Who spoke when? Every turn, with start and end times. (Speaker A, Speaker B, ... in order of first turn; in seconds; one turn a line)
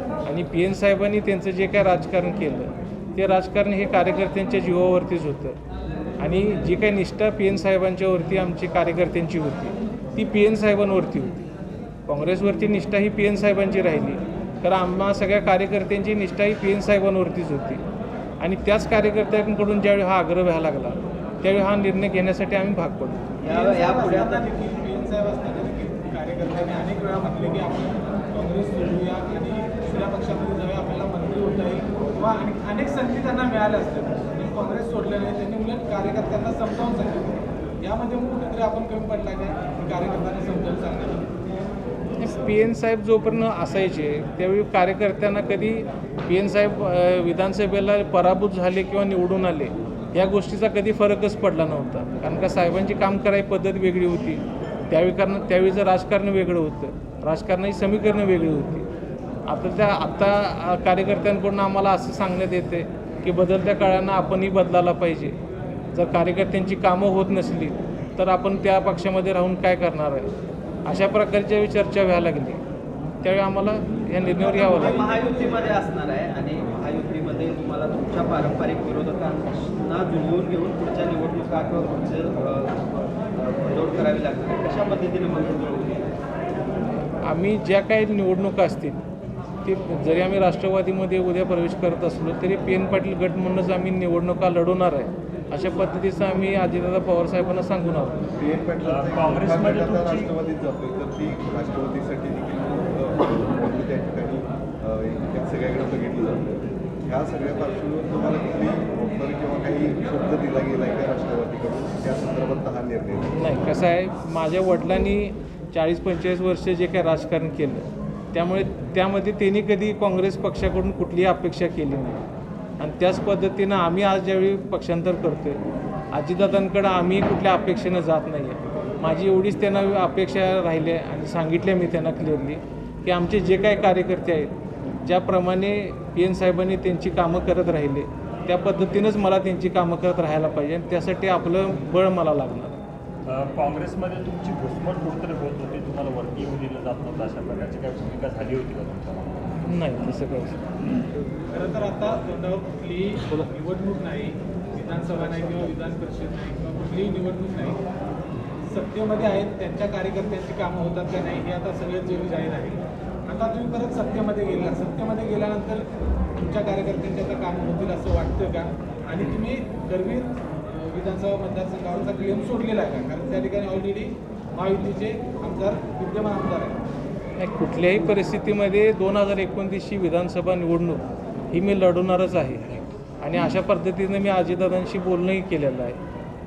Speaker A: 0.3-5.6
Speaker A: 6.2-11.4
Speaker A: 12.1-17.8
Speaker A: 18.4-23.3
Speaker B: 23.4-24.5
Speaker C: 23.4-41.3
Speaker A: 42.2-58.9
Speaker A: 59.5-65.3
Speaker A: 65.9-70.3
Speaker A: 70.8-72.6
Speaker A: 73.2-75.0
Speaker C: 74.3-75.8
Speaker B: 74.5-82.8
Speaker B: 83.4-86.1
Speaker A: 87.2-89.0
Speaker A: 89.6-98.2
Speaker D: 98.4-113.4
Speaker E: 98.8-100.3
Speaker A: 113.4-122.2
Speaker A: 122.8-125.6
Speaker A: 126.1-142.8
Speaker E: 143.2-149.5
Speaker A: 149.6-150.6
Speaker C: 151.5-157.8
Speaker C: 158.7-165.8
Speaker C: 166.4-176.8
Speaker A: 177.4-186.0